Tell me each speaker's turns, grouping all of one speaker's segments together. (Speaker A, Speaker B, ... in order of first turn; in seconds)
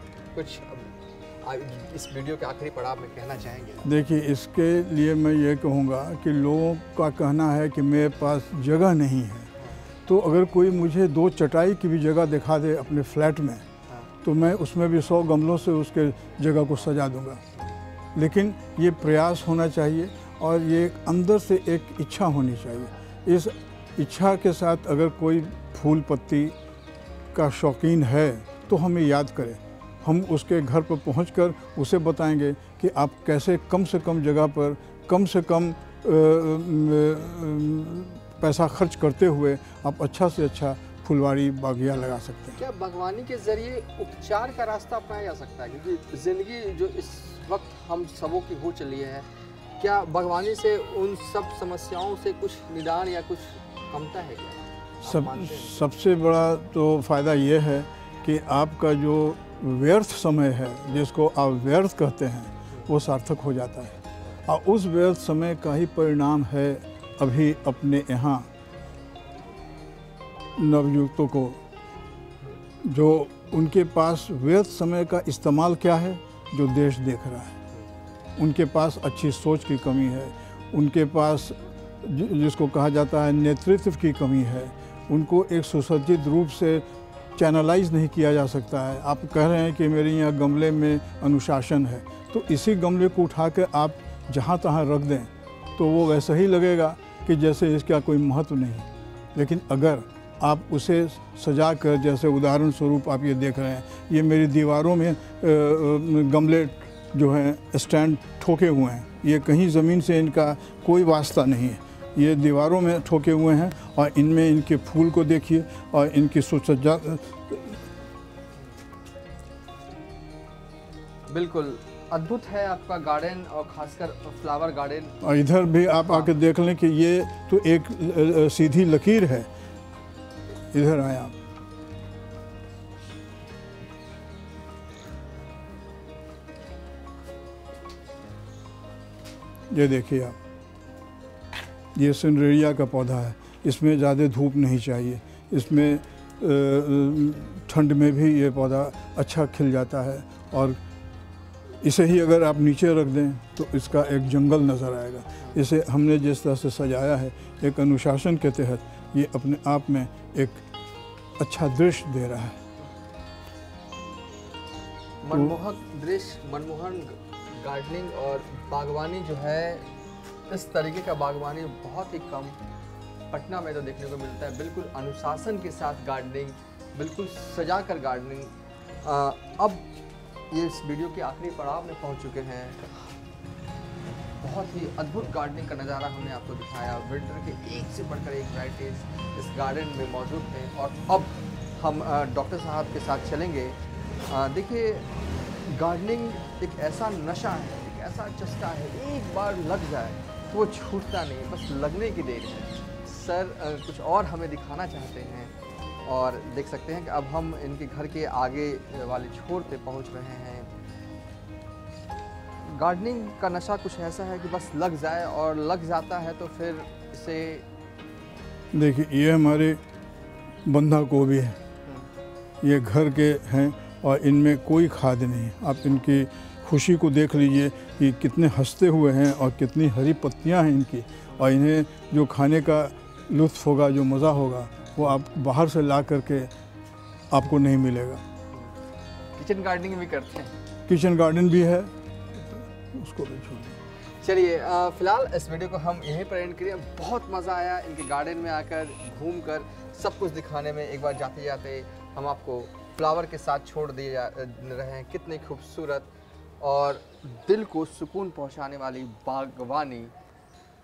Speaker A: 0.3-3.9, 42.6-49.3, 49.8-55.8, 121.3-125.2, 126.0-126.3, 165.2-169.9, 170.5-172.6, 173.3-179.9, 180.5-182.9, 184.4-195.1, 195.7-205.5, 206.1-210.7, 212.7-217.7, 239.4-240.5, 244.2-256.1, 256.6-260.1
Speaker B: 3.8-9.5, 10.1-13.6, 14.2-17.4, 18.1-26.6, 27.3-42.6, 55.1-68.5, 70.6-71.6, 72.8-77.6, 78.4-86.8, 87.4-117.8, 125.2-129.5, 130.7-131.3, 139.7-140.4, 142.0-150.8, 151.8-160.6, 161.4-162.6, 218.7-219.8, 220.7-221.6, 222.6-236.5, 237.3-238.2, 240.9-243.8